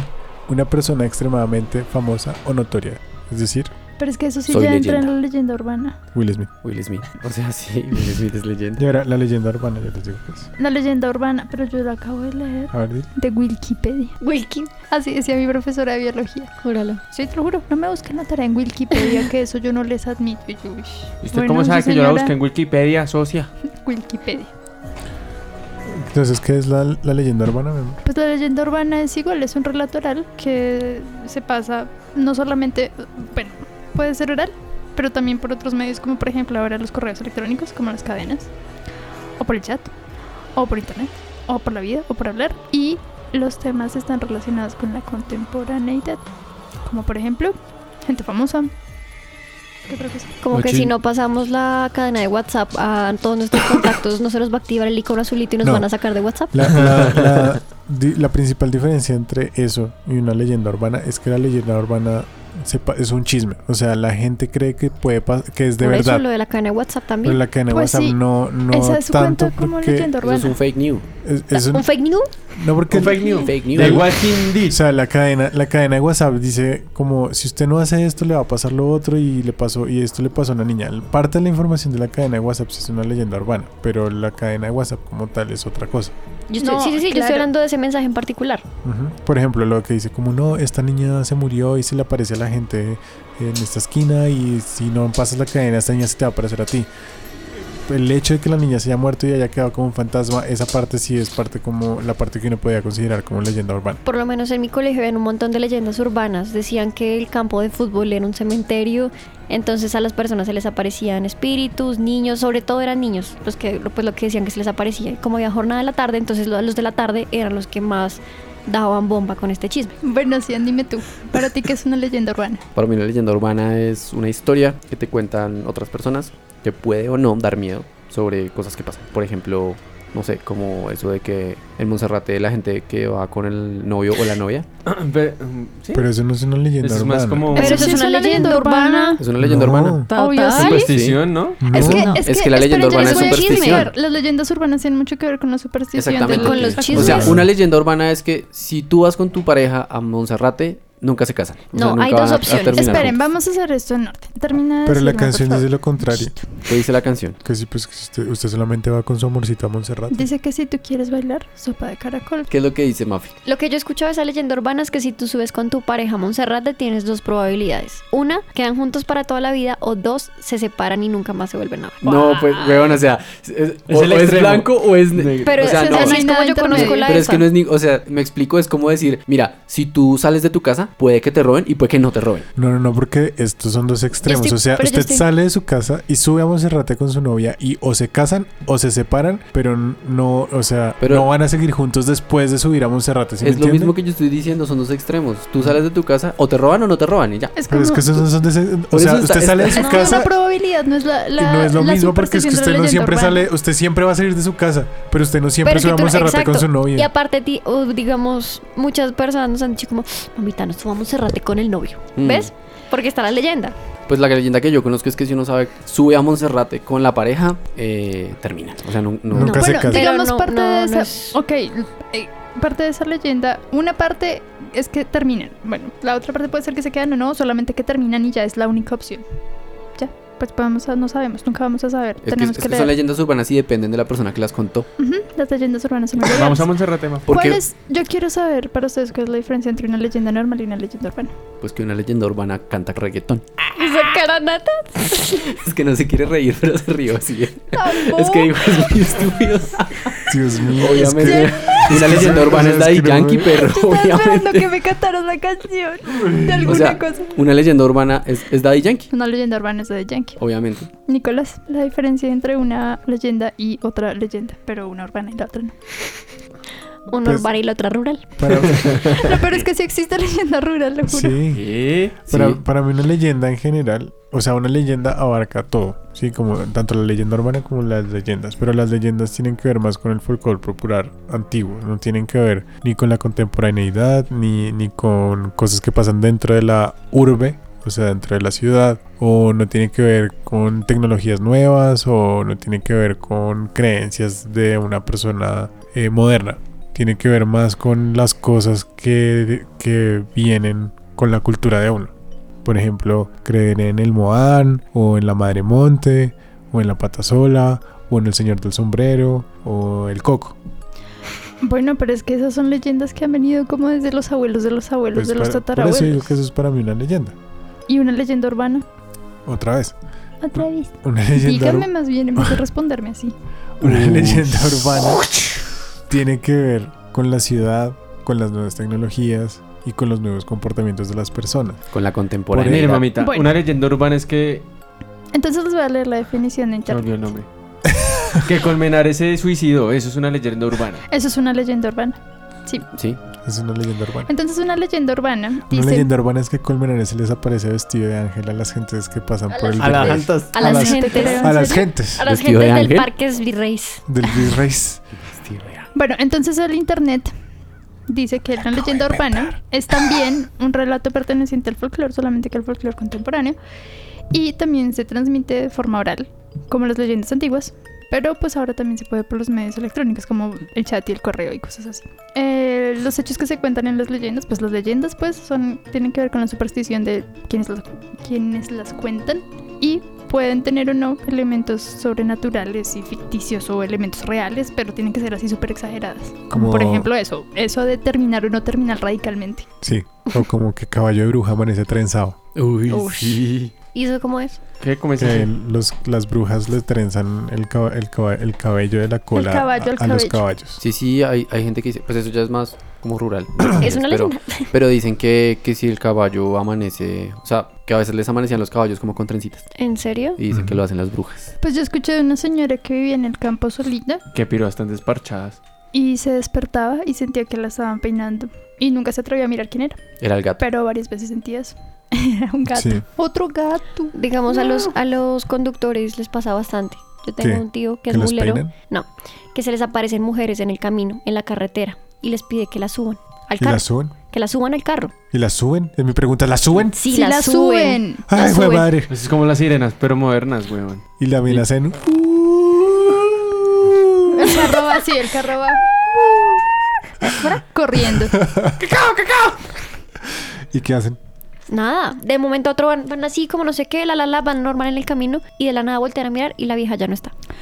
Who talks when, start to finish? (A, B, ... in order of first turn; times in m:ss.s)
0:00.5-0:03.7 A
0:04.0-0:06.0 B
0:04.5-0:05.1 C
0:06.1-0:06.5 A
0:06.6-0:08.8 C
0:08.8-0:10.5 A
0:10.6-0:14.2 B
0:12.7-0:13.1 A
0:14.2-0:14.7 D
0:14.9-0:16.5 B
0:16.6-0:17.0 D
0:17.1-0:22.3 B
0:21.2-0:23.5 E
0:23.8-0:24.5 B
0:25.9-0:28.0 A
0:28.0-0:38.5 B
0:39.4-0:39.9 B
0:40.5-0:46.2 B
0:46.8-0:48.7 B
0:49.9-0:50.4 B
0:50.4-0:56.8 D
0:50.5-0:50.9 E
0:55.6-0:55.9 A
0:56.5-1:06.2 A
0:56.8-0:57.4 E
1:05.8-1:07.4 D
1:07.2-1:10.1 A
1:07.7-1:10.6 B
1:10.2-1:11.0 C
1:11.2-1:11.9 A
1:11.5-1:12.3 D
1:12.5-1:26.1 A
1:12.9-1:14.8 E
1:13.4-1:14.0 C
1:26.5-1:28.6 D
1:26.6-1:27.5 B
1:28.8-1:36.9 A
1:37.5-1:44.0 A
1:44.0-2:00.0 D
2:00.0-2:02.6 B
2:02.7-2:14.6 C
2:14.8-2:16.1 E
2:15.9-2:17.5 A
2:16.8-2:18.0 E
2:17.5-2:19.3 D
2:17.5-2:19.2 B
2:19.2-2:23.9 C
2:19.4-2:20.1 A
2:20.1-2:20.9 D
2:20.1-2:20.9 B
2:20.5-2:21.6 E
2:21.6-2:22.1 A
2:21.7-2:27.2 B
2:21.8-2:23.9 D
2:25.9-2:33.2 C
2:26.1-2:27.4 D
2:26.9-2:27.5 A
2:31.7-2:33.1 D
2:32.7-2:36.4 B
2:34.8-2:36.4 A
2:36.7-2:37.4 C
2:37.4-2:40.3 A
2:40.1-2:42.5 B
2:42.5-2:43.4 C
2:43.4-2:52.3 D
2:52.0-3:02.5 C
2:52.1-2:52.8 B
2:53.9-2:55.7 E
2:55.4-2:57.5 D
2:55.6-2:57.2 B
3:02.5-3:13.9 A
3:04.2-3:05.2 B
3:11.0-3:11.3 C
3:13.4-3:17.5 C
3:17.6-3:18.2 B
3:17.7-3:20.3 A
3:18.9-3:20.0 C
3:19.7-3:23.5 B
3:21.4-3:27.1 A
3:25.6-3:33.7 D
3:32.2-3:32.5 C
3:34.1-3:39.6 C
3:39.3-3:40.1 A
3:39.4-3:41.4 D
3:39.4-3:49.2 B
3:50.0-3:52.9 B
3:52.2-3:54.9 C
3:55.0-3:56.7 B
3:56.3-3:57.2 E
3:57.2-3:57.6 C
3:57.3-4:01.3 B
4:01.6-4:03.7 C
4:03.8-4:05.4 D
4:05.2-4:14.7 C
4:07.7-4:08.5 B
4:10.3-4:13.6 A
4:11.2-4:11.9 B
4:13.6-4:17.3 B
4:16.6-4:19.1 C
4:19.1-4:20.4 B
4:20.4-4:20.9 C
4:21.0-4:25.8 B
4:27.1-4:28.6 D
4:28.4-4:29.3 A
4:28.7-4:29.0 E
4:29.1-4:31.4 B
4:31.1-5:02.1 A
4:31.5-4:32.2 E
4:32.3-4:32.6 C
5:02.6-5:10.6 A
5:11.6-5:16.3 B
5:15.1-5:17.4 A
5:17.9-5:18.8 B
5:19.4-5:19.9 A
5:20.4-5:23.3 B
5:21.0-5:22.6 A
5:23.8-5:25.3 A
5:23.8-5:25.0 E
5:26.1-5:31.8 A
5:31.9-5:33.0 C
5:32.5-5:33.0 A
5:32.6-5:34.6 E
5:33.2-5:33.6 B
5:35.3-5:37.1 B
5:36.9-5:37.5 E
5:37.9-5:38.5 A
5:38.4-5:41.0 E
5:41.1-5:42.9 B
5:42.9-5:43.2 C
5:43.4-5:44.3 A
5:44.3-5:46.1 B
5:45.7-5:52.3 A
5:49.8-5:50.5 E
5:49.8-5:50.3 C
5:50.5-5:54.0 D
5:50.6-5:51.9 B
5:52.2-5:53.1 C
5:54.1-5:55.0 A
5:55.4-5:55.8 C
5:55.9-5:57.3 B
5:58.1-6:03.6 B
5:58.8-5:59.4 A
6:04.3-6:29.7 B
6:26.5-6:27.1 A
6:29.8-6:32.4 A
6:32.6-6:33.7 C
6:32.9-6:34.6 D
6:34.8-6:35.5 E
6:35.2-6:40.8 A
6:39.3-6:40.4 B
6:40.8-6:49.7 C
6:43.8-6:44.7 D
6:49.7-6:50.4 D
6:50.4-6:51.5 C
6:51.6-6:54.2 B
6:54.3-6:55.6 E
6:55.9-7:00.0 B
7:00.2-7:00.6 C
7:00.6-7:04.9 B
7:02.7-7:03.0 A
7:04.1-7:15.1 D
7:07.4-7:08.7 A
7:13.6-7:14.1 A
7:15.3-7:17.0 A
7:16.9-7:18.0 D
7:17.1-7:18.9 B
7:18.3-7:19.1 A
7:19.1-7:21.6 E
7:21.2-7:23.4 A
7:24.3-7:25.8 B
7:27.3-7:28.4 B
7:28.4-7:28.8 A
7:28.8-7:29.5 E
7:30.7-7:31.2 A
7:31.7-7:37.3 D